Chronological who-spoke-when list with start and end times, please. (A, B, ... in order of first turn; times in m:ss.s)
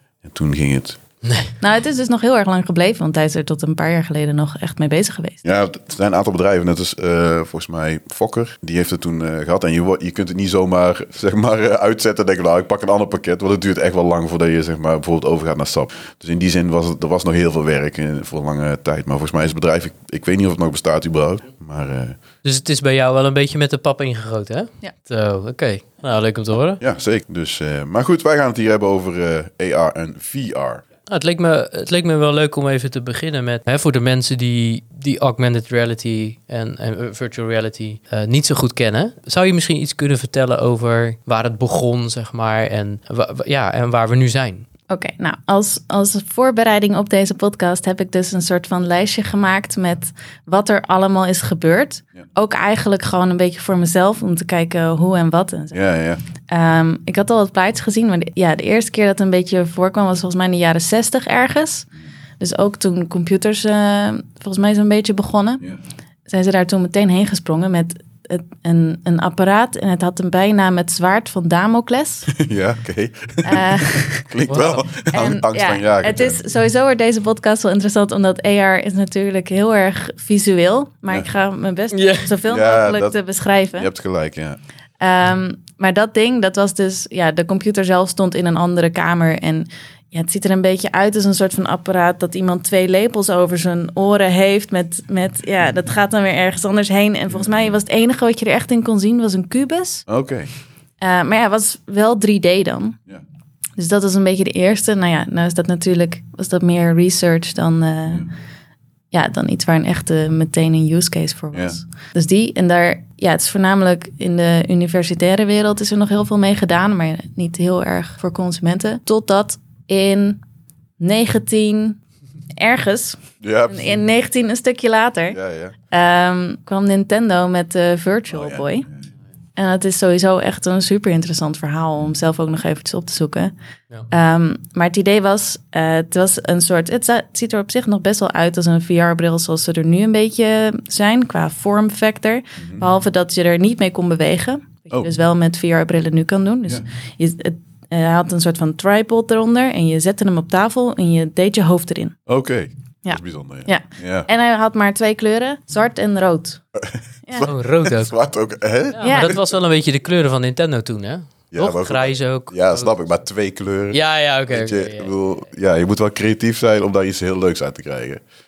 0:00.2-0:01.0 A
0:01.2-0:01.6 B
0:01.6-0:05.5 C
0:05.4-0:22.2 A
0:22.4-0:26.8 B
0:26.8-0:30.8 A
0:31.1-0:44.7 B
0:44.9-0:55.8 C
0:55.7-0:56.2 A
0:56.5-1:01.9 C
1:02.4-1:05.7 C
1:06.3-1:12.3 C
1:12.3-1:16.4 A
1:13.4-1:14.3 C
1:14.5-1:14.8 B
1:15.1-1:23.9 C
1:21.9-1:22.3 B
1:22.4-1:23.2 A
1:23.8-1:24.6 A
1:25.0-1:40.1 C
1:40.1-1:40.5 A
1:41.0-1:43.0 C
1:43.8-1:48.3 C
1:49.1-2:00.4 C
2:01.0-2:02.0 C
2:02.6-2:05.4 C
2:03.4-2:04.0 A
2:05.3-2:05.7 A
2:05.9-2:08.9 C
2:08.3-2:08.6 A
2:09.6-2:13.5 C
2:14.1-2:32.2 C
2:32.3-2:34.3 A
2:33.0-2:36.6 C
2:36.8-2:39.5 A
2:37.3-2:37.5 C
2:37.4-2:38.1 B
2:38.9-2:43.0 B
2:39.0-2:39.4 C
2:41.5-2:48.2 A
2:43.9-2:45.1 B